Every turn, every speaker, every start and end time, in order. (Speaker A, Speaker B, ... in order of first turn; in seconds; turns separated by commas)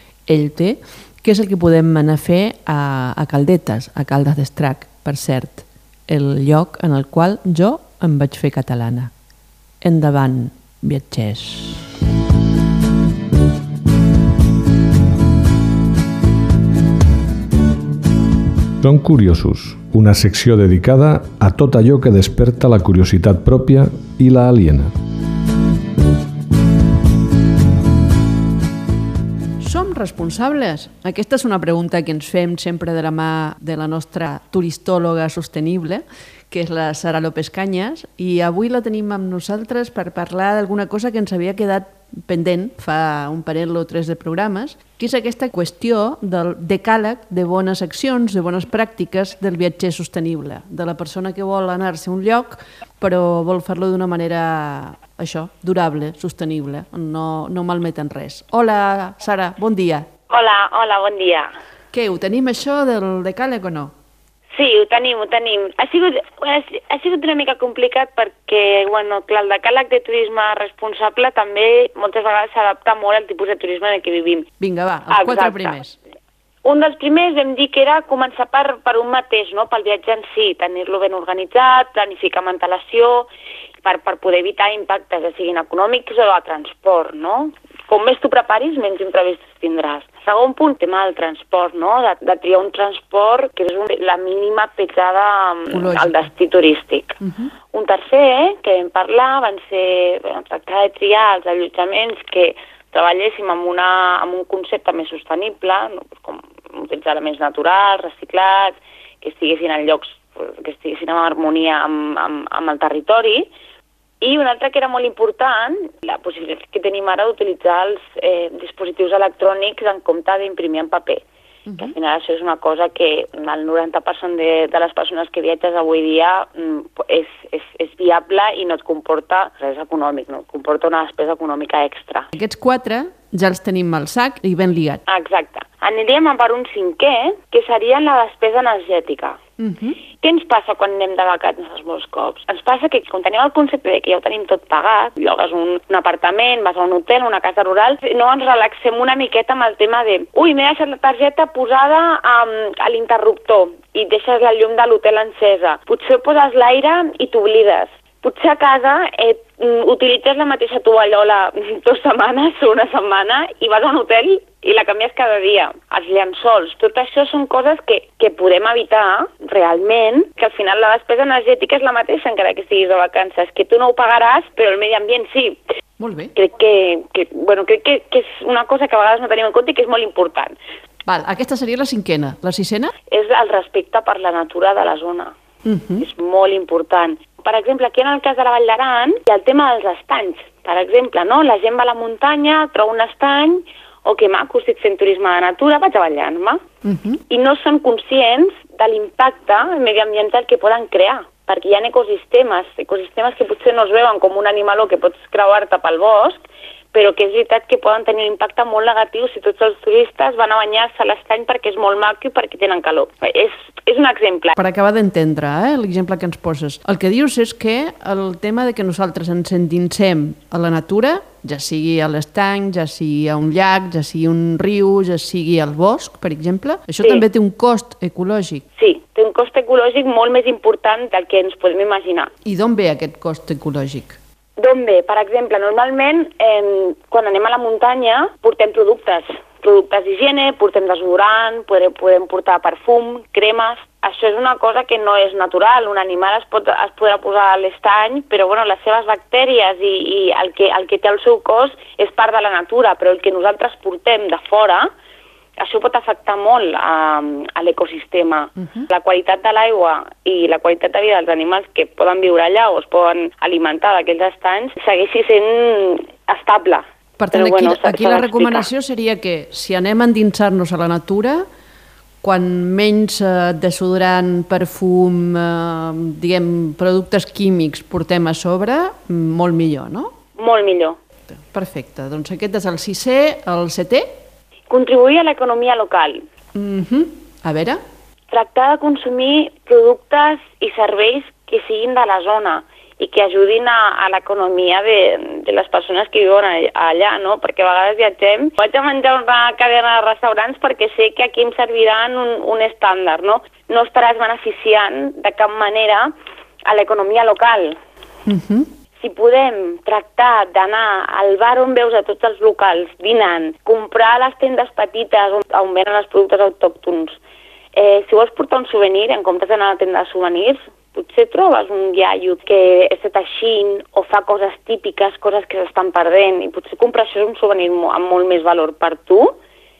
Speaker A: 0.2-9.1, Speaker A: 9.8-11.8, Speaker B: 18.8-24.9, Speaker A: 29.6-60.1, Speaker C: 60.3-61.5, Speaker A: 61.9-63.9, Speaker C: 64.5-74.5, Speaker A: 74.6-76.0, Speaker C: 75.1-75.8, Speaker C: 76.6-83.3, Speaker C: 83.8-97.2, Speaker A: 95.7-96.2, Speaker A: 97.2-97.5, Speaker C: 97.7-113.5, Speaker C: 114.2-121.2, Speaker A: 121.7-121.9, Speaker C: 121.8-132.3, Speaker A: 132.3-135.0, Speaker C: 135.1-139.4, Speaker A: 139.6-140.0, Speaker C: 140.2-175.6, Speaker A: 176.0-176.3, Speaker C: 176.3-180.6, Speaker A: 181.0-182.9, Speaker C: 183.1-185.3, Speaker A: 185.6-186.0, Speaker C: 186.0-196.6, Speaker A: 196.8-197.2, Speaker C: 197.3-206.4, Speaker C: 206.9-214.5, Speaker A: 214.6-228.6, Speaker C: 228.8-232.3, Speaker A: 232.4-234.2, Speaker C: 234.6-254.9, Speaker C: 255.6-268.7, Speaker A: 258.6-258.9, Speaker A: 267.2-271.4, Speaker A: 272.2-280.1, Speaker C: 280.4-281.0, Speaker A: 281.4-284.1, Speaker C: 284.7-286.2, Speaker A: 286.5-287.8, Speaker C: 288.3-306.1, Speaker C: 306.7-307.8, Speaker A: 308.2-308.7, Speaker C: 309.0-317.2, Speaker C: 317.7-329.3